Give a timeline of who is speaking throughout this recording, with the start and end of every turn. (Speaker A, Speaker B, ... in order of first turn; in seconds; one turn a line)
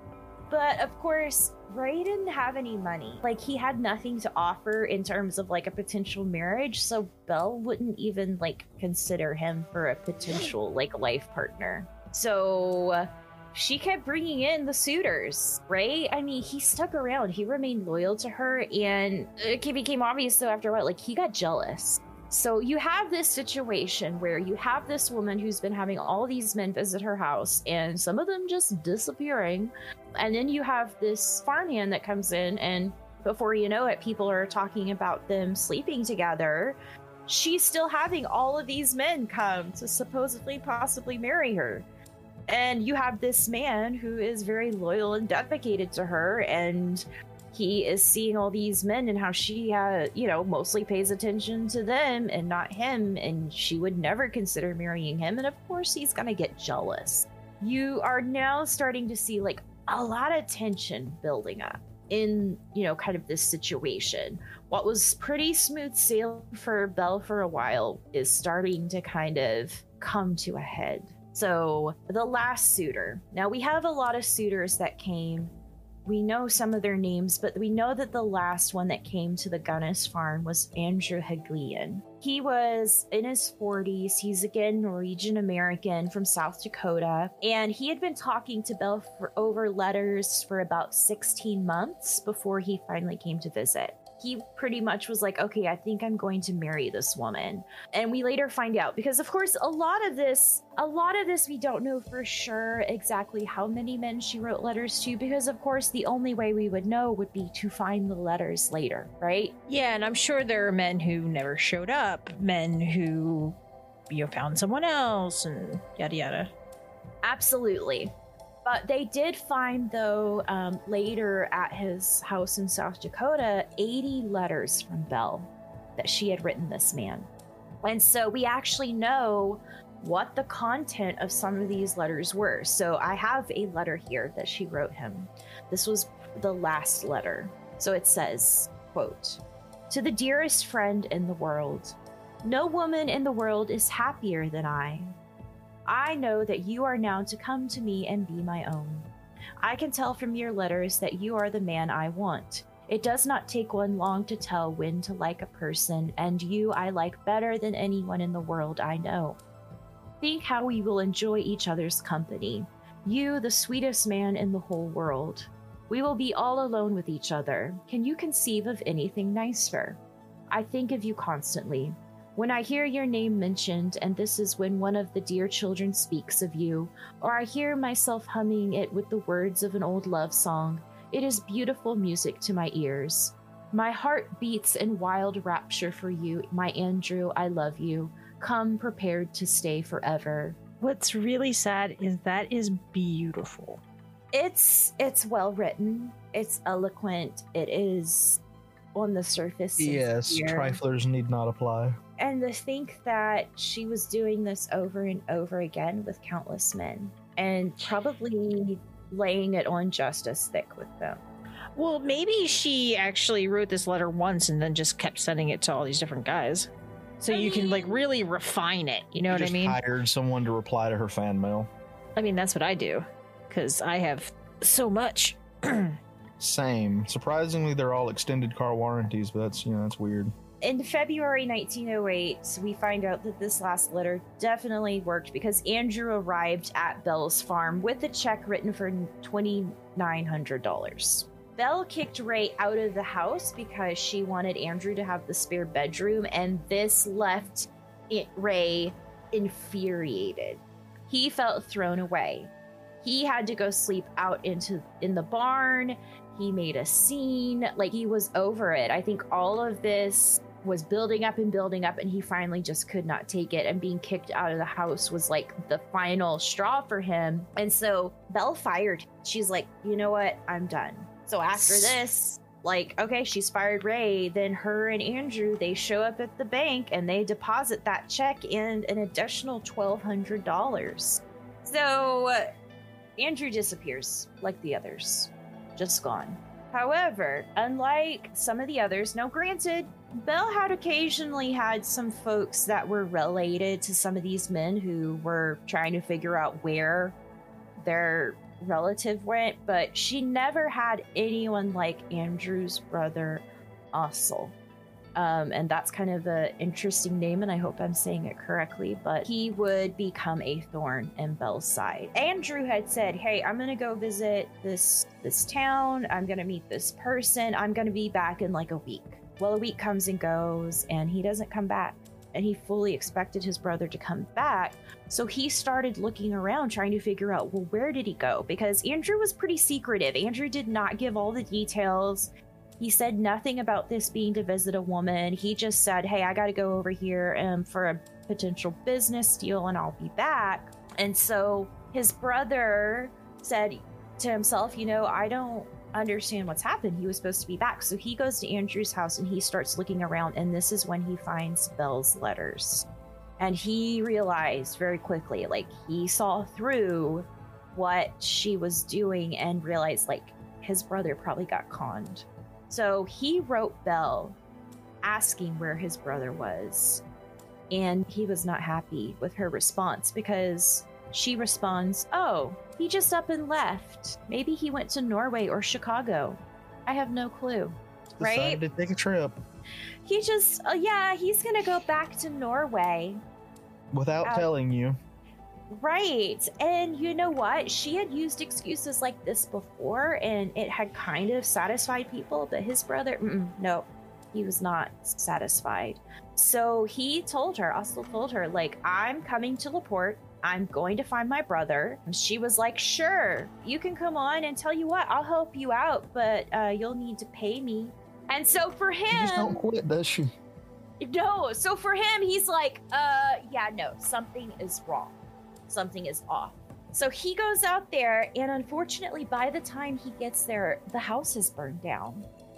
Speaker A: 0.5-41.9
Speaker A: 42.5-75.5
Speaker A: 76.1-109.5
Speaker B: 109.7-113.6
Speaker B: 114.1-116.5
Speaker A: 117.2-118.1
Speaker A: 118.7-127.3
Speaker A: 127.8-145.2
Speaker A: 145.9-149.1
Speaker A: 149.6-159.4
Speaker A: 160.2-170.0
Speaker A: 170.5-190.6
Speaker B: 190.8-193.8
Speaker A: 194.3-198.4
Speaker A: 198.9-200.8
Speaker C: 199.8-202.0
Speaker A: 202.2-211.2
Speaker B: 211.8-219.8
Speaker A: 217.3-218.1
Speaker C: 219.2-221.7
Speaker B: 222.2-226.0
Speaker C: 226.4-230.3
Speaker A: 230.6-252.5
Speaker A: 253.0-282.5
Speaker A: 283.2-297.2
Speaker A: 297.8-304.5
Speaker A: 305.2-352.9
Speaker A: 353.4-364.4
Speaker A: 365.0-367.0
Speaker A: 367.7-378.6
Speaker C: 378.2-379.4
Speaker A: 380.1-383.2
Speaker C: 383.9-385.0
Speaker A: 385.7-409.6
Speaker C: 409.1-410.3
Speaker A: 411.0-415.2
Speaker A: 415.7-422.2